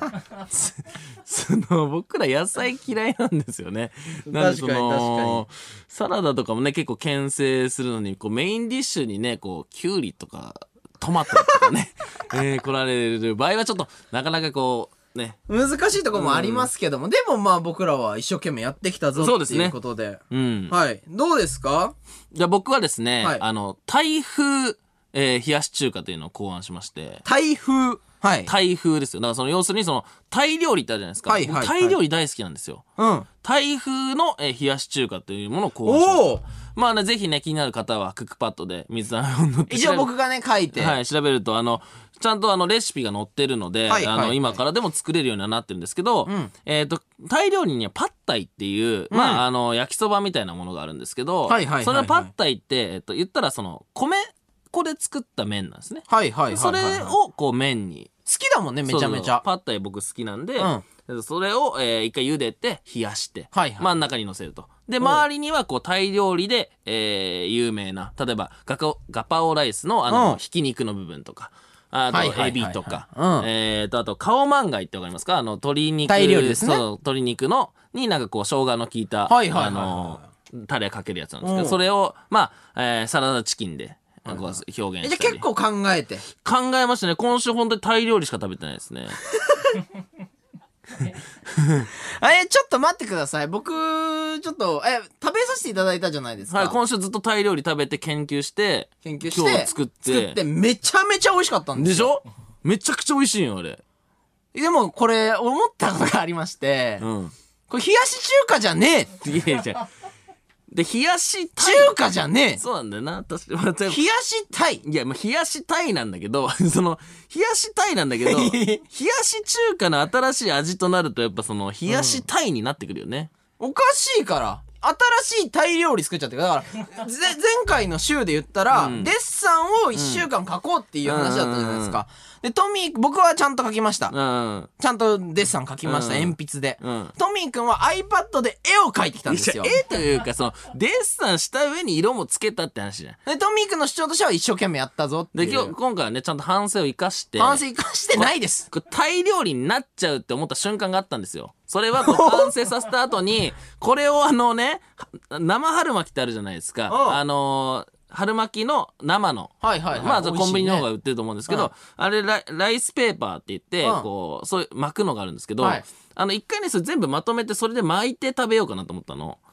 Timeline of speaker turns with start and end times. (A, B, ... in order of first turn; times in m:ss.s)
0:00.5-0:15.4 A
0:04.3-0:05.4 B
0:15.5-0:22.0 B
0:16.1-0:16.7 A
0:19.2-0:19.8 A
0:20.3-0:20.8 A
0:22.3-0:27.2 A
0:27.2-0:28.5 B
0:28.5-0:32.8 A
0:31.3-0:32.0 B
0:33.0-0:33.3 B
0:33.4-0:40.1 A
0:35.8-0:36.4 B
0:39.7-0:41.0 B
0:40.7-0:58.1 A
0:43.9-0:44.6 B
0:46.3-0:46.5 B
0:49.1-0:49.4 B
0:51.5-0:52.3 B
0:56.1-0:57.1 B
0:58.3-0:59.4 B
0:58.9-1:25.4 A
1:00.6-1:00.8 B
1:03.5-1:03.9 B
1:10.1-1:10.4 B
1:12.1-1:13.5 B
1:16.1-1:16.8 B
1:19.3-1:20.2 B
1:21.4-1:21.8 B
1:24.2-1:26.2 B
1:26.3-1:29.2 A
1:29.5-1:29.8 B
1:31.6-1:31.9 A
1:32.0-1:36.8 B
1:36.5-1:40.4 A
1:39.0-1:42.1 B
1:41.8-1:43.8 A
1:44.5-1:47.1 B
1:47.0-1:47.3 A
1:47.7-1:49.1 B
1:49.2-1:49.9 A
1:50.7-1:52.0 A
1:51.6-1:52.6 B
1:52.6-1:54.0 A
1:53.9-1:54.8 B
1:54.8-2:03.3 A
1:58.2-1:58.8 B
2:01.9-2:02.2 B
2:03.6-2:14.1 B
2:08.7-2:09.1 A
2:10.0-2:10.2 A
2:11.0-2:12.0 A
2:14.1-2:14.7 A
2:14.8-2:19.8 B
2:15.9-2:17.1 A
2:19.3-2:23.2 A
2:23.3-2:25.7 B
2:25.4-2:27.6 A
2:27.4-2:28.7 B
2:28.2-2:49.4 A
2:32.0-2:32.5 B
2:36.9-2:37.2 B
2:39.6-2:40.9 B